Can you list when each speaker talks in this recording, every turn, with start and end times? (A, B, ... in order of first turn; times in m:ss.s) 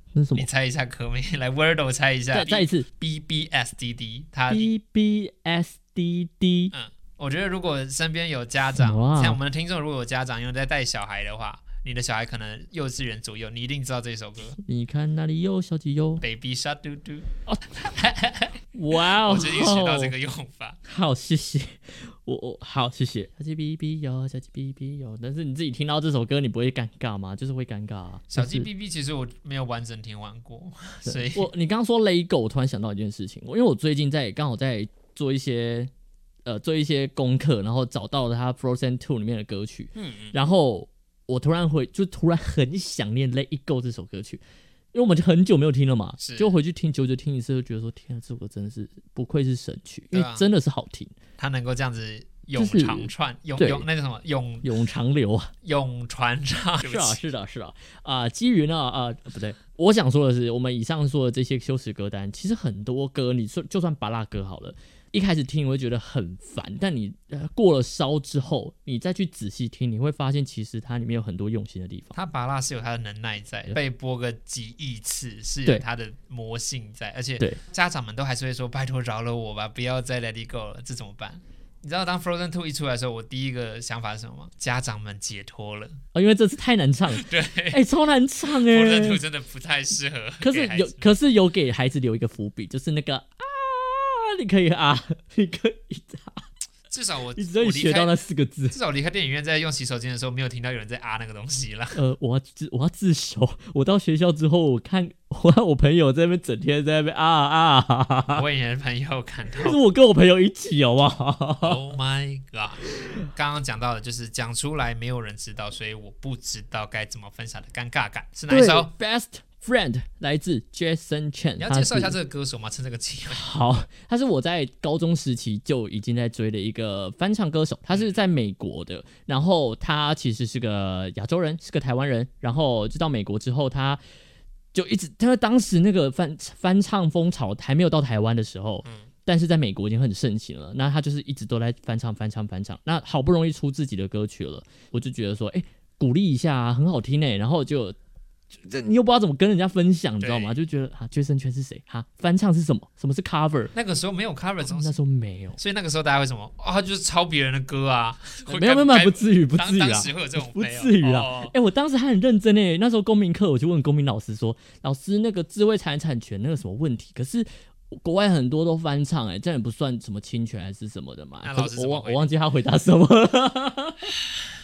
0:00.2-0:00.5 A
0:00.4-0:04.7 B
0:02.3-0:02.9 A
0:04.5-0:06.7 A
0:06.7-0:14.6 B
0:08.8-0:09.4 A
0:14.6-0:16.2 A
0:16.2-0:20.8 B
0:18.7-0:20.1 A
0:20.9-0:28.7 A
0:28.3-0:31.5 B
0:31.1-0:35.9 A
0:36.4-0:44.4 A
0:40.0-0:40.4 B
0:44.9-0:51.2 A
0:46.2-0:46.5 B
0:50.1-0:50.5 B
0:51.4-0:54.7 B
0:52.6-0:53.9 A
0:54.6-0:55.5 A
0:55.6-0:57.2 B
0:56.8-1:12.2 A
1:12.1-1:26.0 B
1:26.1-1:29.2 A
1:27.1-1:27.8 B
1:28.5-1:31.1 B
1:30.4-1:36.4 A
1:36.9-1:38.1 B
1:37.4-1:38.8 A
1:38.7-1:42.0 B
1:41.9-1:48.4 A
1:48.3-1:49.8 B
1:49.6-1:51.8 A
1:51.6-1:58.9 B
1:58.5-2:02.2 A
2:01.6-2:03.4 B
2:03.3-2:14.0 A
2:14.7-2:28.0 A
2:28.6-2:33.7 A
2:30.2-2:30.6 B
2:33.7-2:35.0 B
2:34.6-2:35.6 A
2:35.6-2:41.5 B
2:38.5-2:54.2 A
2:51.4-2:52.3 B